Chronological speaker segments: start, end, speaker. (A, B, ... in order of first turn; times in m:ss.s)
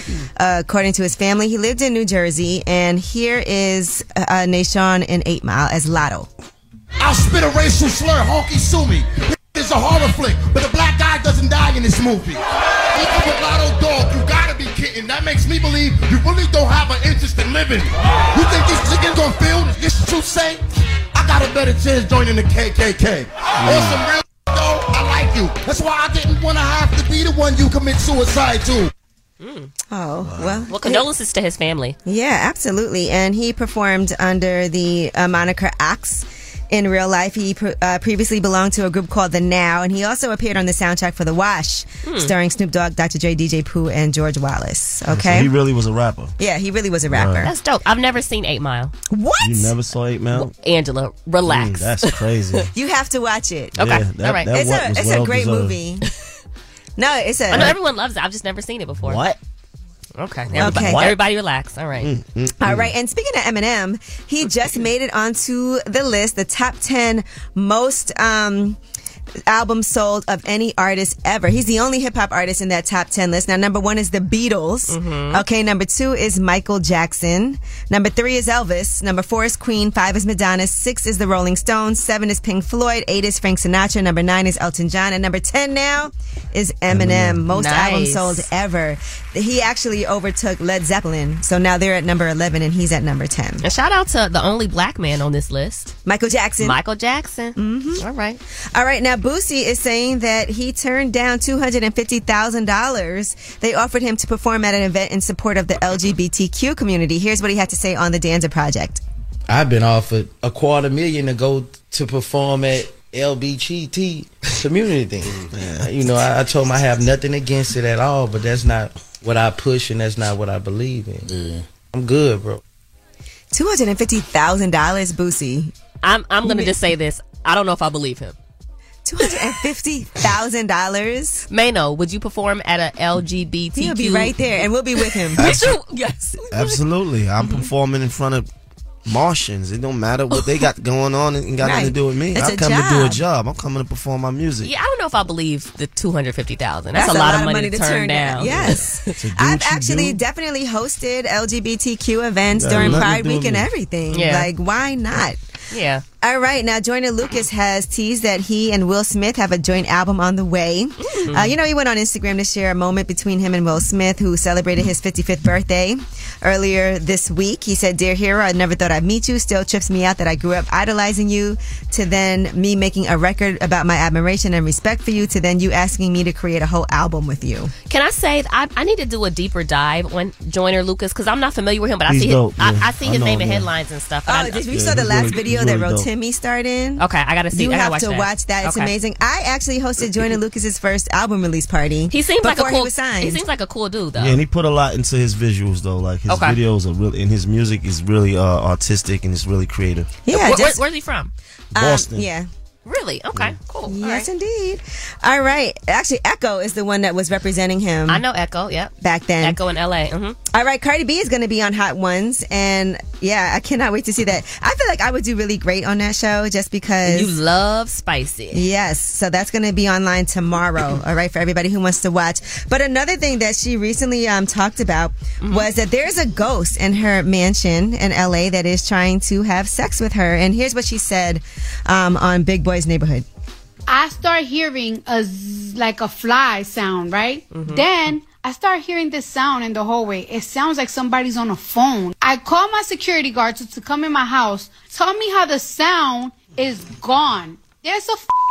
0:00.4-0:06.3 A
0:07.0-0:20.6 B
0:21.1-0:28.9 B
0:23.6-0:24.0 C
0:29.4-0:29.7 D
0:29.9-0:31.1 A
0:30.2-0:30.7 C
0:30.7-0:32.0 D
0:32.1-0:45.5 A
0:42.0-0:42.3 D
0:45.1-0:46.3 C
0:46.4-0:47.5 A
0:47.1-0:47.5 C
0:47.4-0:48.9 D
0:49.1-0:49.7 A
0:49.4-0:50.5 C
0:50.3-0:52.3 D
0:51.4-0:52.7 C
0:52.7-0:53.8 A
0:53.8-0:54.5 D
0:53.8-0:55.8 C
0:54.5-0:56.0 A
0:57.0-0:57.8 A
0:57.5-0:59.3 D
0:59.0-0:59.4 C
1:00.2-1:02.1 D
1:00.5-1:01.2 C
1:00.6-1:01.1 A
1:02.0-1:02.9 C
1:02.6-1:08.8 A
1:09.5-1:33.6 A
1:14.9-1:15.4 D
1:26.9-1:27.4 C
1:27.5-1:28.5 D
1:33.6-1:36.0 D
1:36.1-1:36.8 A
1:36.6-1:38.4 D
1:37.6-1:38.0 A
1:38.7-1:49.0 A
1:49.5-2:01.3 E
1:55.5-1:55.9 C
2:01.9-2:02.6 E
2:03.5-2:05.7 A
2:06.0-2:08.4 D
2:06.4-2:06.8 A
2:09.0-2:11.4 A
2:11.5-2:14.4 D
2:13.8-2:15.6 A
2:15.0-2:16.8 D
2:15.4-2:15.8 C
2:16.5-2:18.5 C
2:19.1-2:24.7 C
2:20.3-2:20.7 D
2:21.6-2:23.2 A
2:24.6-2:29.0 D
2:27.0-2:35.4 A
2:28.4-2:30.2 C
2:32.6-2:33.7 C
2:32.7-2:33.1 D
2:34.1-2:34.5 D
2:35.7-2:36.0 D
2:36.2-2:57.7 A
2:41.0-2:41.6 D
2:57.9-3:04.7 D
3:02.1-3:03.7 C
3:04.3-3:13.4 A
3:04.7-3:06.1 C
3:07.0-3:08.9 D
3:12.1-3:14.4 D
3:14.2-3:20.2 C
3:16.3-3:16.6 D
3:20.3-3:20.8 A
3:20.3-3:21.3 D
3:21.8-3:22.5 A
3:21.8-3:22.3 C
3:22.9-3:24.3 D
3:23.9-3:28.2 A
3:28.1-3:30.4 D
3:29.0-3:29.6 A
3:30.5-3:37.3 A
3:37.0-3:38.6 D
3:38.5-3:53.2 A
3:45.4-3:45.7 D
3:53.9-4:08.3 F
3:57.5-3:57.9 D